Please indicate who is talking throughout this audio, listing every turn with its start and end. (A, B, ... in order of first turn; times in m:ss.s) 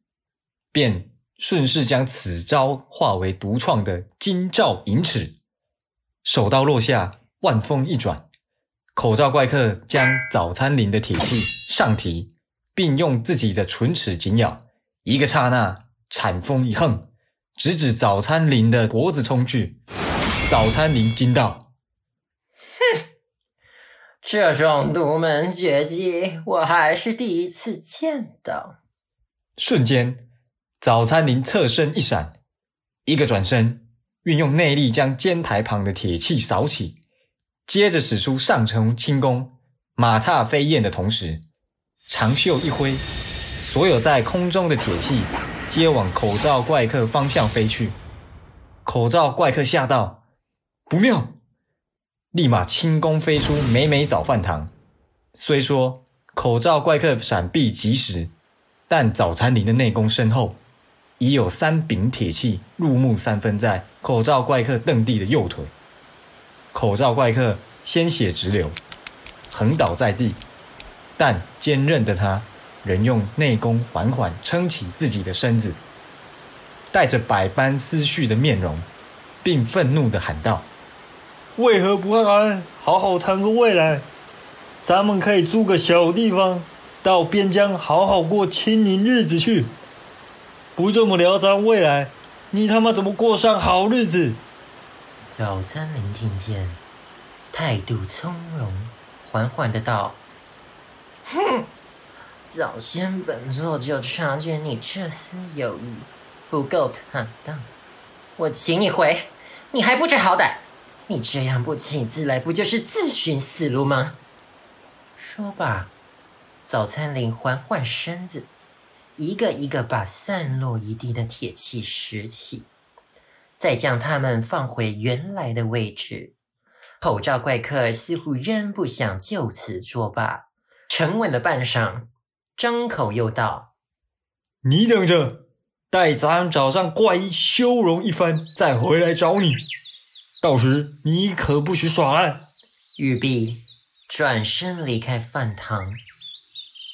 0:00.7-0:05.3 A
0:06.2-0:08.2 A
0:08.9-0:19.8 A
0:20.5-0:21.7 A
0:24.2-0:28.8 B
0:29.6-0:30.2 A
0:30.8-0:32.3 A
0:33.0-0:37.0 A
0:37.7-0:41.4 A
0:42.1-0:43.0 A
0:43.6-0:48.0 A
0:48.8-0:50.2 A
0:50.9-0:51.4 A
0:52.3-0:54.7 A
0:55.3-0:58.3 A
0:58.9-1:00.6 A
1:01.2-1:05.7 A
1:06.7-1:08.8 A
1:09.5-1:10.4 A
1:11.2-1:15.8 A
1:16.9-1:18.9 A
1:19.4-1:20.7 A
1:21.6-1:24.0 A
1:24.8-1:29.7 A
1:30.8-1:34.4 A
1:35.3-1:36.8 B
1:37.5-1:40.2 B
1:41.3-1:41.7 B
1:42.5-1:47.7 B
1:48.4-1:54.2 B
1:55.2-1:55.9 B
1:56.6-1:58.5 B
1:59.2-2:02.7 B
2:03.6-2:06.3 B
2:07.0-2:13.7 B
2:14.6-2:19.6 A
2:20.4-2:22.4 A
2:23.0-2:26.0 B